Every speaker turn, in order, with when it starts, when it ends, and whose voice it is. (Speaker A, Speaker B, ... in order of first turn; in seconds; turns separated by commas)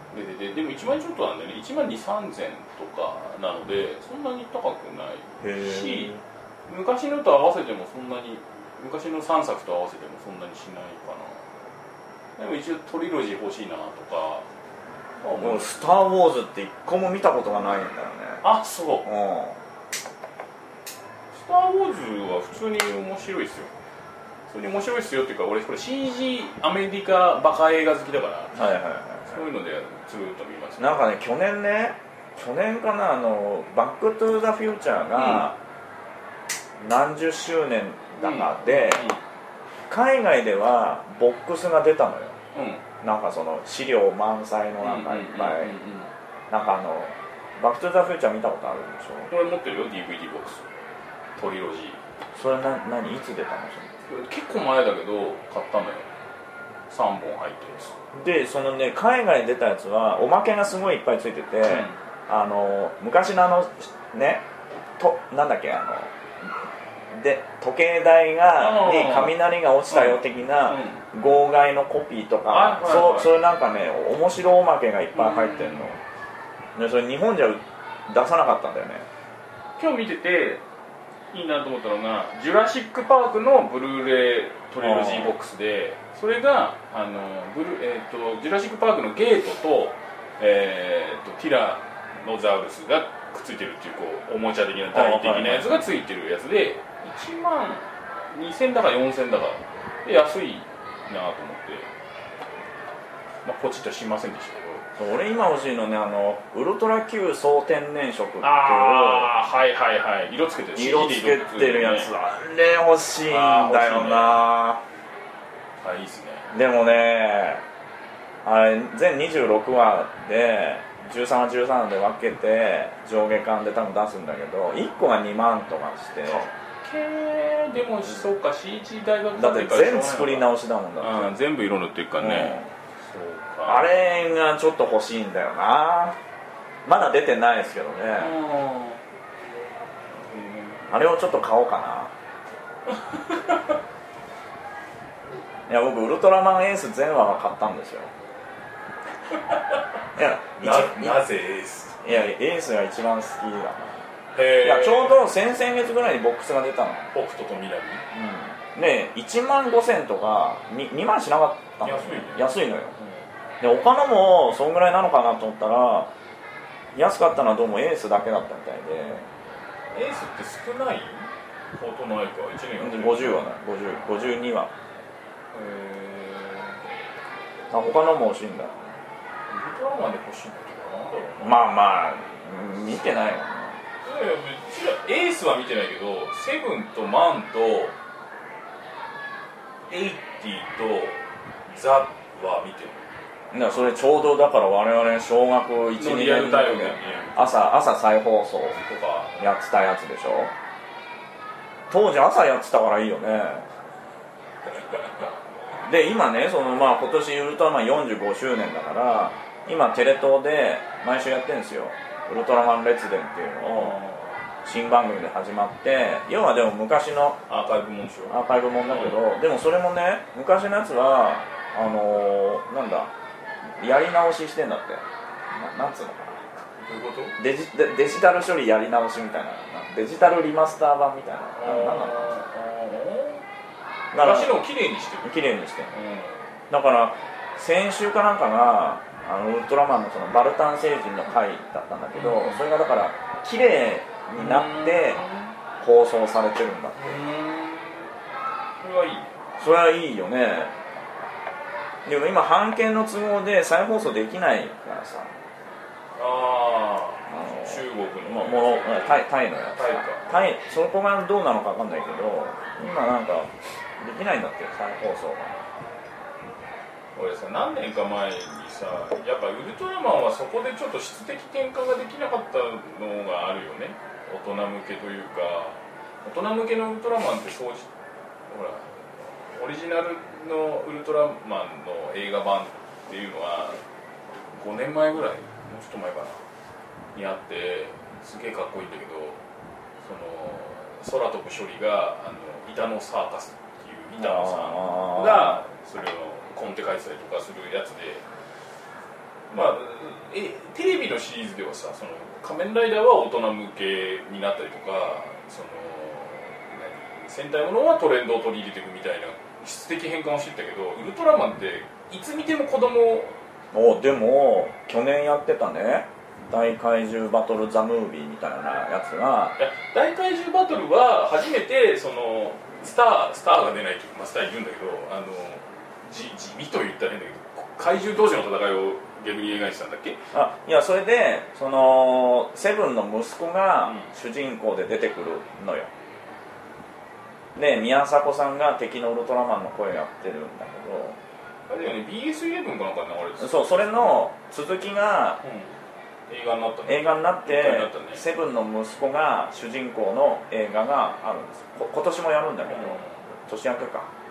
Speaker A: 0.1-6.1, Speaker B: 5.4-6.2, Speaker A: 6.7-11.4, Speaker A: 12.4-14.4, Speaker A: 15.2-15.8, Speaker B: 15.4-18.4, Speaker A: 18.4-19.1, Speaker B: 19.0-19.6, Speaker A: 21.3-23.7, Speaker A: 24.5-28.7, Speaker B: 28.5-29.4, Speaker A: 29.2-31.1, Speaker B: 30.8-35.6, Speaker A: 35.1-35.5, Speaker B: 36.8-39.1, Speaker A: 38.2-39.2, Speaker B: 39.9-42.4, Speaker A: 42.5-42.8, Speaker B: 43.0-45.7, Speaker A: 44.8-46.1, Speaker B: 46.5-49.3, Speaker A: 49.3-50.6, Speaker A: 51.4-52.0, Speaker B: 52.3-53.9, Speaker A: 54.0-56.1, Speaker A: 56.9-57.9, Speaker B: 58.1-64.5, Speaker A: 61.6-62.0, Speaker B: 65.0-66.1, Speaker B: 67.1-76.0, Speaker A: 68.6-69.3, Speaker A: 69.9-71.0, Speaker A: 72.5-73.3, Speaker A: 75.1-75.8, Speaker B: 76.8-79.1, Speaker A: 79.8-80.6, Speaker A: 81.3-101.9, Speaker B: 84.8-85.3, Speaker B: 94.9-95.9, Speaker A: 103.4-104.8, Speaker B: 104.9-109.3, Speaker A: 108.4-112.1, Speaker B: 110.7-114.8, Speaker A: 113.2-114.4, Speaker A: 115.8-116.5, Speaker B: 116.5-117.6, Speaker B: 118.4-126.5, Speaker A: 126.2-133.9, Speaker B: 129.3-131.3, Speaker B: 132.2-132.7, Speaker B: 133.7-136.2, Speaker B: 136.8-138.3, Speaker A: 138.1-139.0, Speaker A: 140.2-140.8, Speaker B: 140.9-142.1, Speaker A: 143.1-143.6, Speaker B: 145.7-148.1, Speaker A: 149.3-149.8, Speaker B: 150.2-151.2, Speaker A: 150.6-152.2, Speaker B: 152.0-154.0, Speaker A: 154.3-155.2, Speaker B: 154.6-157.1, Speaker A: 157.1-158.0, Speaker B: 158.1-162.9, Speaker A: 161.8-163.2, Speaker B: 163.6-166.1, Speaker B: 166.9-169.3, Speaker A: 169.9-173.4, Speaker B: 172.8-174.7, Speaker A: 175.5-176.9, Speaker B: 177.7-178.9, Speaker A: 179.5-181.6, Speaker B: 181.4-183.8, Speaker A: 184.0-187.9, Speaker A: 189.9-193.2, Speaker B: 193.5-198.8, Speaker A: 196.0-197.5, Speaker A: 198.7-199.5, Speaker B: 199.4-200.5, Speaker B: 201.9-203.7, Speaker B: 205.8-214.0, Speaker A: 213.6-214.4, Speaker B: 214.6-217.4, Speaker A: 217.5-219.2, Speaker B: 218.3-223.1, Speaker B: 223.8-226.5, Speaker A: 226.7-227.4, Speaker B: 227.4-232.3, Speaker A: 231.5-233.4, Speaker B: 234.1-234.6, Speaker A: 234.1-236.4, Speaker B: 235.2-235.9, Speaker B: 236.7-245.2, Speaker A: 242.1-242.6, Speaker A: 244.4-245.5, Speaker B: 245.8-247.2, Speaker A: 247.0-248.1, Speaker A: 248.8-249.4, Speaker B: 249.6-250.7, Speaker B: 252.0-255.3, Speaker A: 256.1-260.4, Speaker B: 257.3-265.6, Speaker A: 267.1-277.9, Speaker A: 278.5-283.8, Speaker A: 284.5-286.4, Speaker A: 287.1-289.4, Speaker A: 290.0-298.2, Speaker B: 294.2-295.6, Speaker A: 299.5-313.4, Speaker B: 313.7-319.6, Speaker A: 319.6-330.2, Speaker B: 330.3-335.9, Speaker B: 337.5-341.2, Speaker A: 341.7-344.2, Speaker B: 343.4-345.4, Speaker A: 345.4-345.7, Speaker A: 346.3-348.2, Speaker B: 346.9-354.1, Speaker A: 352.6-353.2